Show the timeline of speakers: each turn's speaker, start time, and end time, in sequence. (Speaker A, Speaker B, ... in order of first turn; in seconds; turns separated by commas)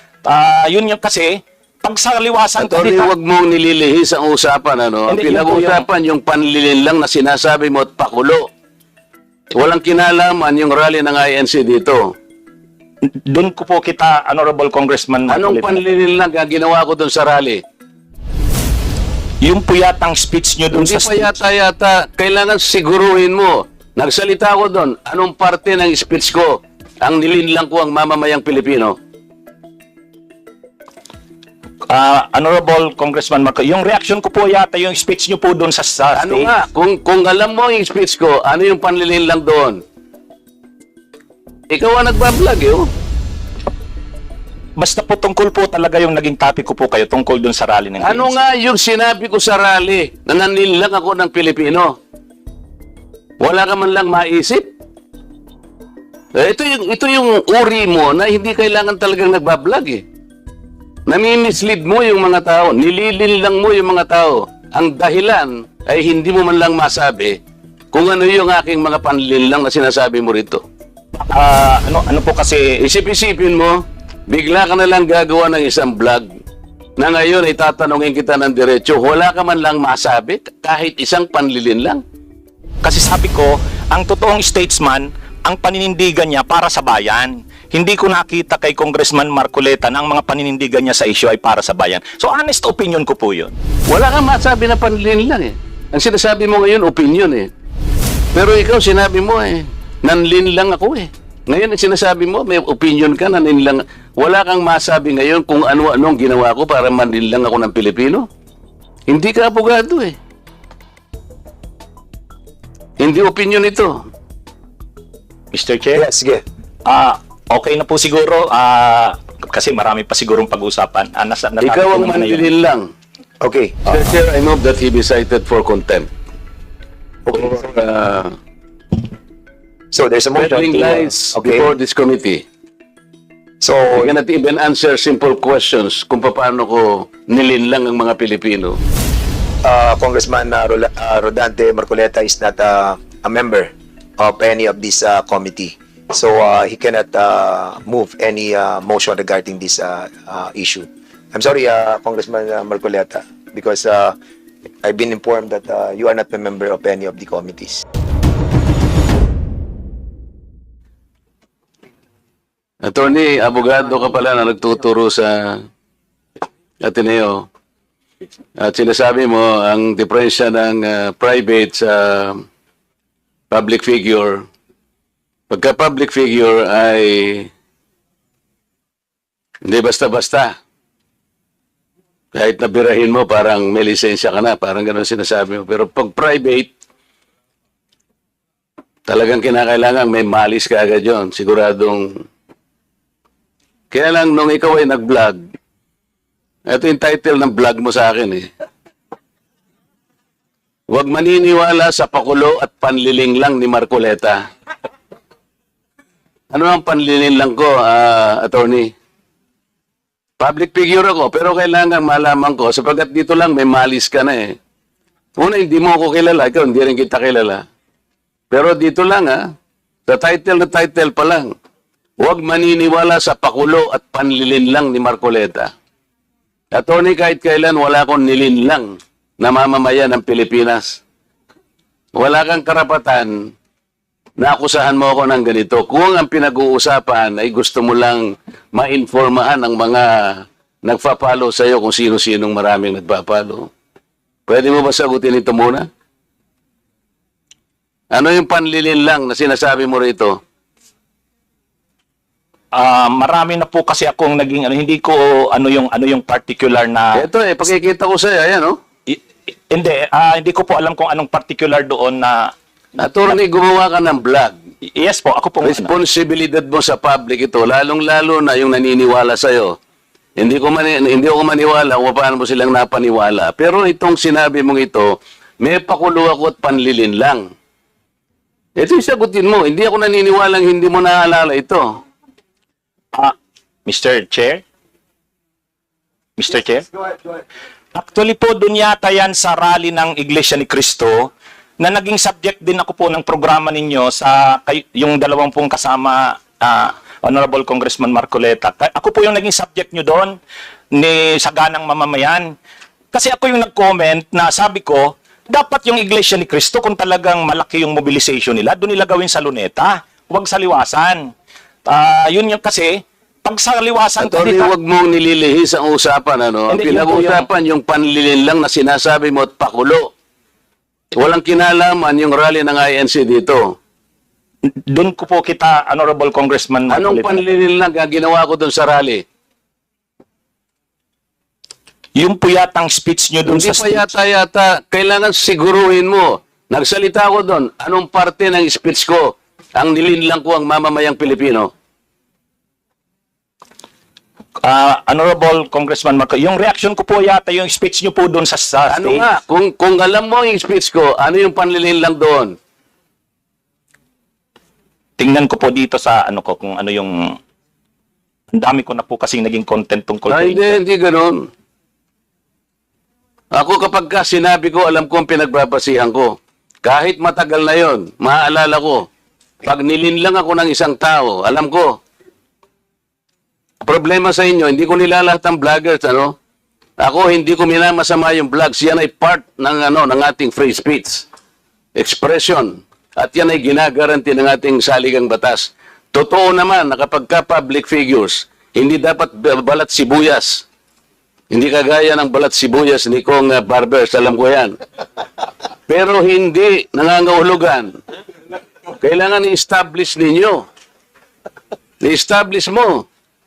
Speaker A: 0.2-3.1, Speaker B: 2.6-8.4, Speaker A: 5.1-5.8, Speaker B: 9.5-12.1, Speaker A: 13.2-15.8, Speaker B: 15.3-17.6, Speaker A: 19.4-21.3, Speaker B: 20.7-28.9, Speaker A: 31.9-36.5, Speaker B: 36.2-39.8, Speaker B: 41.7-42.9, Speaker A: 44.8-48.4, Speaker B: 48.0-51.9, Speaker B: 53.4-54.7, Speaker B: 56.4-60.0, Speaker B: 61.1-67.4, Speaker B: 67.9-70.6, Speaker A: 71.3-72.8, Speaker B: 72.8-76.3, Speaker B: 77.0-82.0, Speaker A: 82.8-93.5, Speaker B: 93.9-97.5, Speaker B: 98.3-108.2, Speaker B: 109.1-110.2, Speaker B: 113.0-114.0, Speaker A: 115.5-116.0, Speaker C: 115.9-116.4, Speaker A: 116.9-122.5, Speaker B: 121.6-122.8, Speaker C: 123.4-124.1, Speaker B: 123.9-126.1, Speaker C: 127.3-127.6, Speaker B: 127.3-128.3, Speaker C: 129.9-131.7, Speaker B: 130.4-132.4, Speaker C: 133.6-134.1, Speaker B: 133.9-138.8, Speaker C: 139.6-154.2, Speaker C: 154.8-157.8, Speaker B: 162.8-165.6, Speaker B: 166.8-167.5, Speaker B: 168.6-172.4, Speaker B: 173.5-174.4, Speaker B: 175.5-177.5, Speaker B: 179.6-180.5, Speaker B: 182.3-186.7, Speaker B: 189.1-192.2, Speaker B: 193.9-195.4, Speaker B: 196.7-198.5, Speaker B: 200.9-204.4, Speaker B: 206.5-208.9, Speaker B: 210.4-214.6, Speaker B: 215.4-217.6, Speaker B: 218.5-219.4, Speaker B: 220.1-221.5, Speaker B: 222.2-225.7, Speaker B: 226.7-231.0, Speaker B: 232.2-233.3, Speaker B: 234.4-243.7, Speaker B: 244.5-245.8, Speaker B: 248.1-250.3, Speaker A: 252.7-257.2, Speaker B: 257.2-258.8, Speaker A: 259.1-262.5, Speaker B: 263.0-264.5, Speaker A: 264.9-265.9, Speaker B: 265.6-269.8, Speaker B: 270.4-277.4, Speaker B: 278.8-281.9, Speaker A: 283.9-284.6, Speaker A: 286.4-286.9, Speaker A: 287.9-291.3, Speaker A: 291.8-300.4, Speaker A: 300.9-302.5, Speaker A: 303.1-311.3, Speaker A: 311.9-314.7, Speaker B: 314.2-320.1, Speaker A: 316.7-317.4, Speaker B: 321.1-323.7, Speaker A: 324.9-327.4, Speaker B: 326.9-329.2, Speaker A: 332.2-334.1, Speaker B: 333.4-341.7, Speaker A: 344.6-349.2, Speaker B: 348.9-352.5, Speaker A: 355.2-357.4, Speaker A: 358.5-360.8, Speaker B: 360.3-361.4, Speaker B: 363.5-369.1, Speaker B: 369.6-371.9, Speaker B: 373.8-376.3, Speaker B: 377.0-381.2, Speaker B: 381.9-390.6, Speaker B: 391.5-394.7, Speaker B: 395.9-397.9, Speaker B: 399.0-400.6, Speaker B: 402.0-403.0